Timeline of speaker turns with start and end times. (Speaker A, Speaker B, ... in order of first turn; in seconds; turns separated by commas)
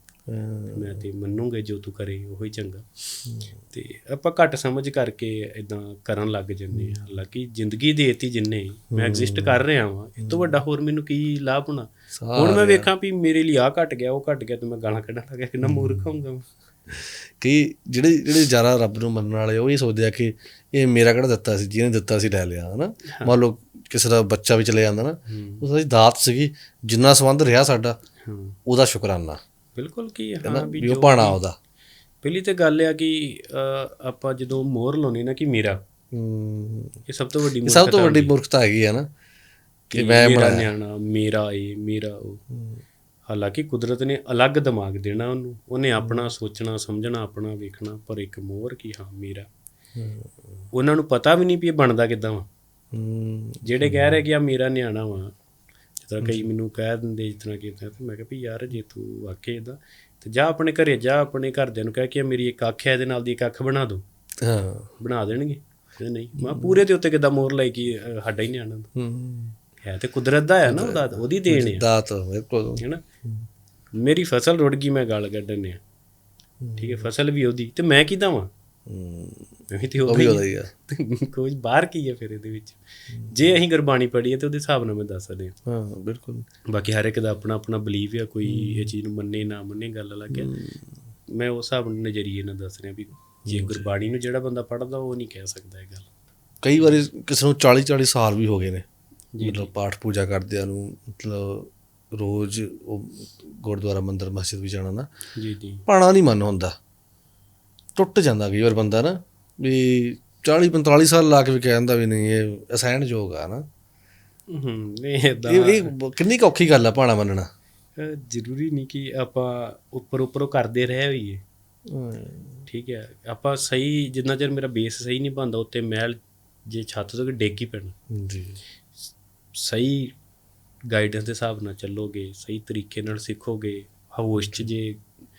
Speaker A: 0.3-1.0, Speaker B: 0.7-3.0, Speaker A: 3.2-3.6, Speaker B: 3.7-16.4, Speaker A: 6.7-7.1, Speaker A: 8.9-9.6, Speaker A: 10.2-10.5, Speaker A: 12.2-12.9, Speaker A: 15.6-16.1, Speaker A: 16.9-28.0, Speaker B: 25.3-25.6, Speaker B: 28.2-28.6, Speaker A: 28.6-29.4, Speaker B: 29.8-31.4, Speaker A: 30.4-31.6, Speaker B: 32.2-35.8, Speaker A: 36.1-37.0, Speaker B: 37.1-38.3, Speaker A: 37.6-39.1, Speaker B: 39.9-42.4, Speaker A: 39.9-40.7, Speaker A: 42.5-42.8, Speaker B: 43.3-49.5, Speaker A: 46.0-46.3, Speaker A: 50.0-50.6, Speaker B: 50.7-52.5, Speaker A: 52.9-54.2, Speaker B: 53.6-55.3, Speaker B: 56.0-64.0, Speaker A: 56.2-56.5, Speaker A: 64.4-64.9, Speaker B: 65.0-68.9, Speaker A: 66.4-66.8, Speaker A: 68.9-69.5, Speaker B: 69.8-71.8, Speaker A: 70.6-73.4, Speaker B: 73.9-75.8, Speaker A: 76.6-77.0, Speaker B: 76.8-78.5, Speaker A: 78.9-80.7, Speaker B: 79.7-85.5, Speaker A: 83.1-83.3, Speaker A: 85.7-86.5, Speaker B: 86.7-90.5, Speaker A: 88.5-88.9, Speaker A: 90.3-90.9, Speaker B: 91.3-96.1, Speaker A: 93.5-93.8, Speaker A: 96.6-98.8, Speaker B: 99.3-99.7, Speaker A: 99.4-105.1, Speaker B: 105.4-105.8, Speaker A: 105.9-106.7, Speaker A: 107.9-113.7, Speaker B: 114.5-115.9, Speaker A: 115.5-117.5, Speaker B: 118.0-121.4, Speaker A: 121.9-122.7, Speaker B: 122.7-127.9, Speaker A: 128.1-128.6, Speaker B: 129.5-130.1, Speaker B: 130.9-135.0